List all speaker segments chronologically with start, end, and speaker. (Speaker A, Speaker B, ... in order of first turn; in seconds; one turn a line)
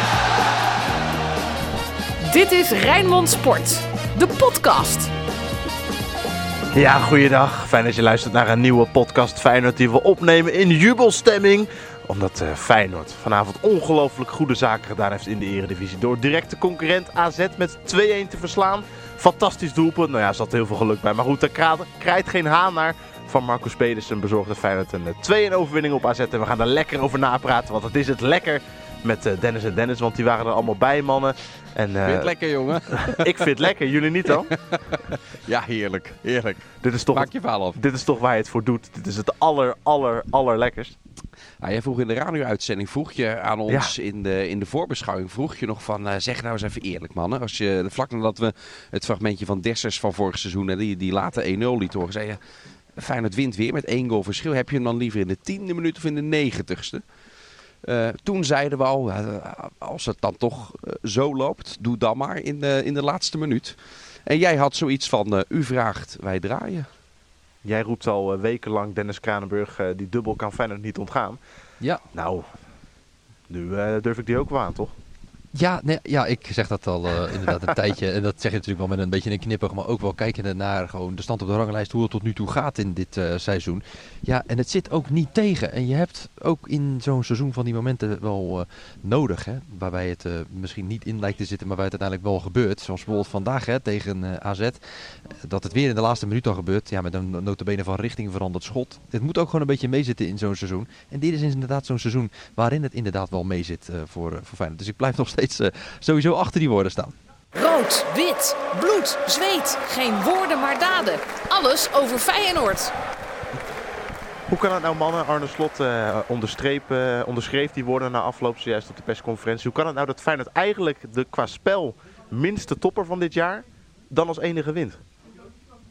Speaker A: 2.2-5.1
Speaker B: 6.7-32.3
Speaker C: 32.0-33.5
Speaker B: 32.9-34.5
Speaker C: 34.3-35.9
Speaker B: 36.6-41.0
Speaker C: 37.1-37.8
Speaker C: 41.6-52.4
Speaker B: 43.7-43.9
Speaker C: 53.0-57.0
Speaker C: 57.8-66.9
Speaker B: 67.6-71.4
Speaker B: 72.1-72.5
Speaker B: 73.5-74.9
Speaker D: 75.5-107.1
Speaker A: 107.5-112.9
Speaker B: 114.5-125.0